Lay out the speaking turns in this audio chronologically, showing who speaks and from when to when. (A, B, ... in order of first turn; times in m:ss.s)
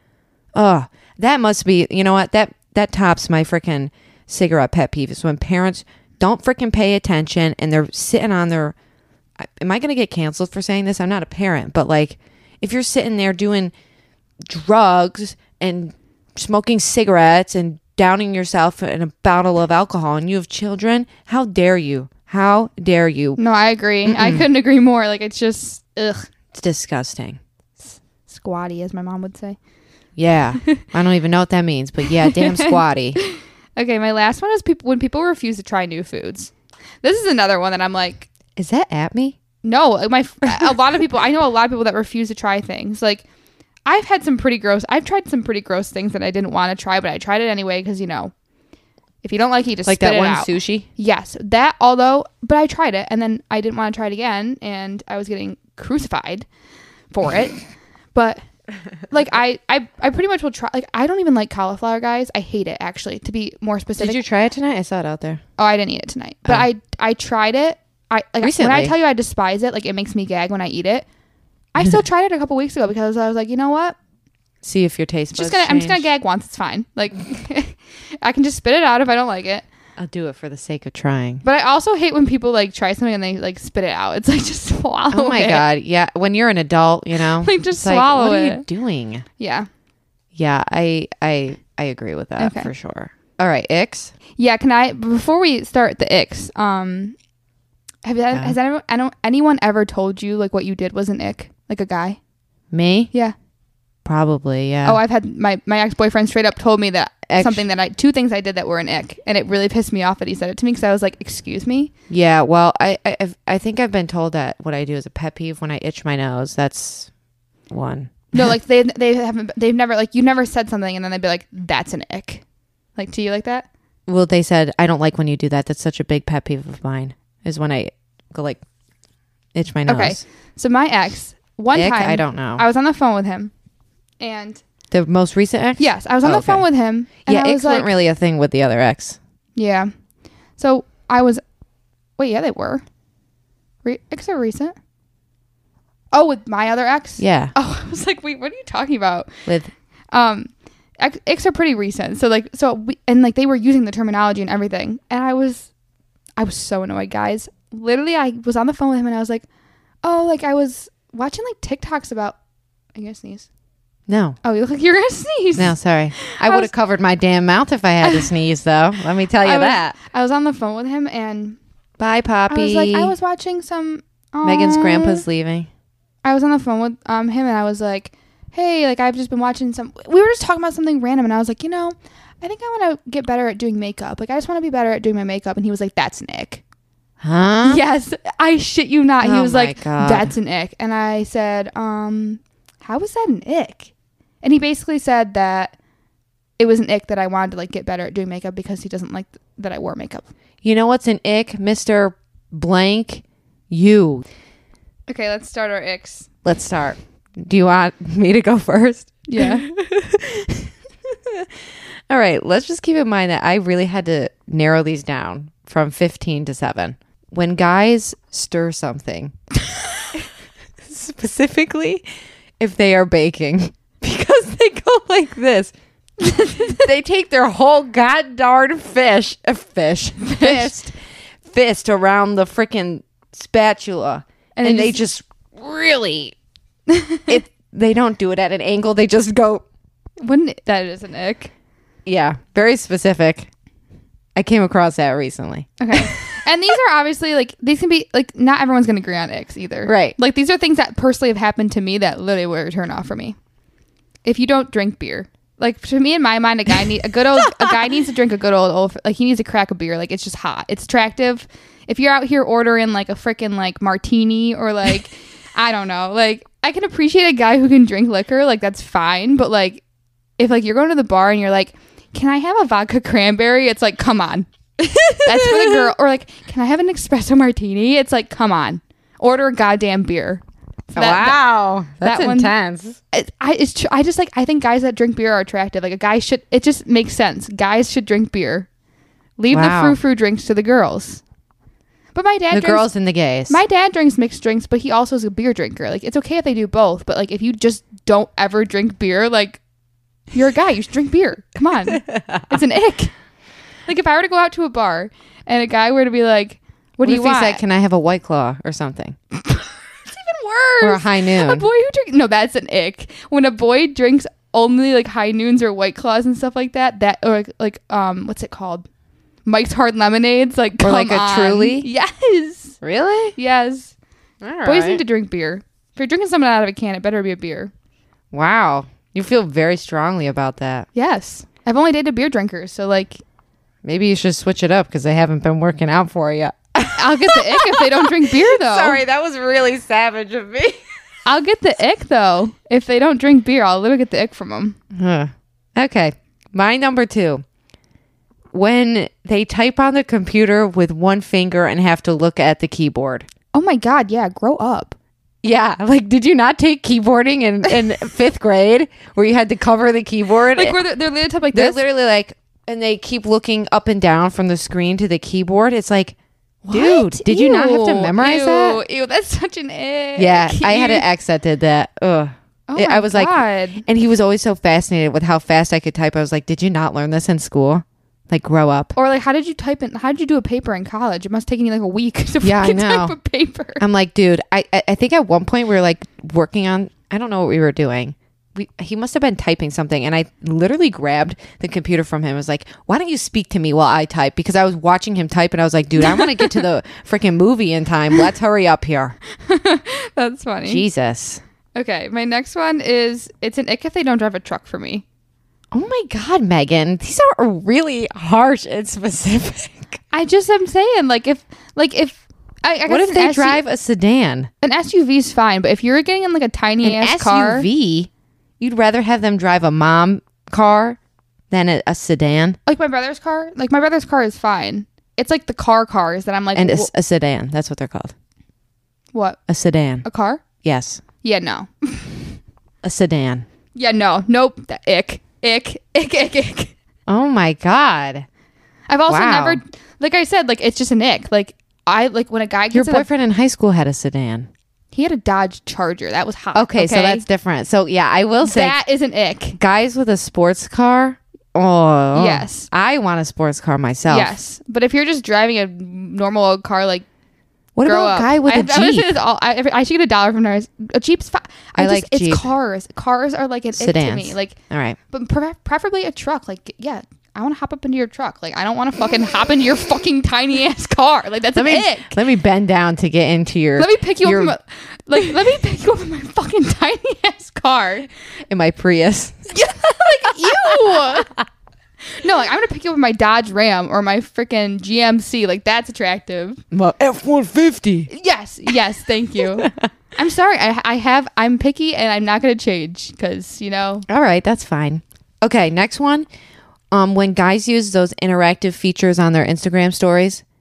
0:00.6-0:08.8 A
0:09.4-0:13.7 A
0:14.4-0:23.4 A
0:23.4-0:26.3 B
0:24.1-0:24.5 A
0:26.5-0:27.4 A
0:27.9-0:29.6 B
0:30.2-0:33.2 A
0:32.2-0:36.5 B
0:37.0-0:38.3 B
0:38.6-0:39.4 A
0:39.6-0:43.2 B
0:43.9-0:48.3 B
0:49.2-0:56.5 B
0:49.9-0:50.9 A
0:57.1-0:57.6 B
0:58.2-0:58.4 B
0:59.1-1:04.2 B
1:04.0-1:05.4 A
1:05.6-1:11.1 B
1:08.4-1:08.9 A
1:11.7-1:14.0 B
1:14.6-1:16.0 A
1:15.3-1:19.6 B
1:20.0-1:21.4 A
1:21.4-1:25.7 B
1:25.1-1:29.2 A
1:27.4-1:28.6 B
1:29.4-1:29.7 B
1:30.3-1:34.1 A
1:32.4-1:32.7 B
1:34.4-1:37.2 B
1:38.0-1:42.2 B
1:42.7-1:43.1 A
1:44.0-1:45.0 A
1:44.8-1:51.9 B
1:47.3-1:47.7 A
1:52.1-1:57.1 A
1:57.7-1:58.5 A
1:58.3-2:02.4 B
2:03.0-2:03.7 B
2:04.1-2:08.6 A
2:09.5-2:10.2 A
2:09.9-2:13.5 B
2:11.7-2:12.6 A
2:14.2-2:14.6 B
2:14.9-2:16.7 A
2:15.8-2:17.9 B
2:17.2-2:19.2 A
2:19.6-2:19.9 B
2:20.6-2:21.4 B
2:22.2-2:22.8 B
2:23.8-2:24.7 B
2:26.1-2:29.3 B
2:27.2-2:27.5 A
2:29.5-2:29.7 A
2:30.1-2:35.7 B
2:36.4-2:39.4 B
2:40.0-2:42.4 B
2:43.0-2:43.5 B
2:44.1-2:44.4 A
2:44.4-2:46.7 B
2:45.6-2:50.0 A
2:48.0-2:48.3 B
2:49.4-2:51.6 B
2:52.0-2:53.1 A
2:52.5-2:55.2 B
2:54.4-2:55.7 A
2:56.2-3:06.6 B
3:07.2-3:07.8 A
3:07.6-3:13.9 B
3:09.2-3:10.3 A
3:14.4-3:15.8 B
3:16.6-3:20.3 B
3:20.6-3:24.2 A
3:25.1-3:26.3 B
3:26.4-3:31.5 A
3:29.3-3:29.7 B
3:32.1-3:39.3 A
3:40.8-3:42.0 A
3:42.6-3:50.9 A
3:46.2-3:46.8 B
3:50.2-3:50.8 B
3:51.4-3:56.4 A
3:54.6-3:55.0 B
3:56.9-3:57.4 B
3:57.3-3:59.6 A
4:00.2-4:01.5 B
4:02.1-4:03.5 A
4:04.4-4:06.3 A
4:05.8-4:13.4 B
4:09.9-4:10.2 A
4:14.2-4:29.8 B
4:17.5-4:17.8 A
4:30.4-4:34.5 B
4:34.8-4:35.9 A
4:35.2-4:40.4 B
4:40.9-4:41.4 B
4:41.0-4:43.0 A
4:42.0-4:42.5 B
4:43.1-4:48.7 B
4:49.4-4:51.2 B
4:49.5-4:50.0 A
4:52.2-4:52.9 B
4:52.5-4:53.6 A
4:53.5-4:59.6 B
5:00.3-5:03.1 B
5:02.0-5:02.4 A
5:03.9-5:07.6 B
5:07.0-5:09.2 A
5:09.4-5:18.9 B
5:10.8-5:11.7 A
5:19.5-5:22.8 B
5:20.8-5:21.9 A
5:22.8-5:23.4 A
5:23.4-5:23.9 B
5:24.4-5:25.0 A
5:24.6-5:27.7 B
5:28.3-5:30.9 A
5:31.0-5:33.2 B
5:33.8-5:40.8 A
5:36.9-5:39.0 B
5:41.3-5:44.8 B
5:44.9-5:47.4 A
5:48.5-5:53.3 A
5:53.5-5:55.0 B
5:55.4-6:00.8 A
6:00.6-6:01.8 B
6:01.5-6:06.2 A
6:06.6-6:11.1 B
6:06.7-6:08.8 A
6:10.2-6:18.9 A
6:12.7-6:13.8 B
6:19.0-6:23.8 B
6:22.4-6:23.2 A
6:23.8-6:39.2 A
6:36.0-6:36.6 B
6:39.4-6:40.8 B
6:40.7-6:41.4 A
6:41.8-6:45.0 B
6:45.7-6:50.0 A
6:50.1-6:53.6 B
6:52.9-6:54.5 A
6:54.6-6:57.7 B
6:56.8-7:01.0 A
7:01.5-7:02.6 A
7:02.7-7:06.9 B
7:06.6-7:08.1 A
7:09.5-7:10.1 A
7:10.0-7:10.4 B
7:10.6-7:11.0 A
7:11.2-7:12.3 B
7:12.8-7:13.4 A
7:13.8-7:16.8 B
7:17.1-7:18.3 A
7:18.9-7:23.1 B
7:19.1-7:19.6 A
7:22.7-7:24.5 A
7:24.9-7:27.2 B
7:26.5-7:28.8 A
7:28.4-7:29.6 B
7:29.6-7:34.4 A
7:32.1-7:32.7 B
7:34.1-7:37.1 B
7:37.8-7:39.1 A
7:37.8-7:44.6 B
7:41.8-7:42.5 A
7:43.8-7:45.0 A
7:45.1-7:52.2 B
7:51.6-7:54.6 A
7:53.8-7:58.1 B
7:58.5-7:59.5 A
7:59.5-8:01.3 B
8:00.4-8:01.4 A
8:02.2-8:06.6 B
8:06.7-8:08.1 A
8:08.1-8:14.1 B
8:09.4-8:09.9 A
8:14.1-8:16.3 A
8:16.9-8:20.4 A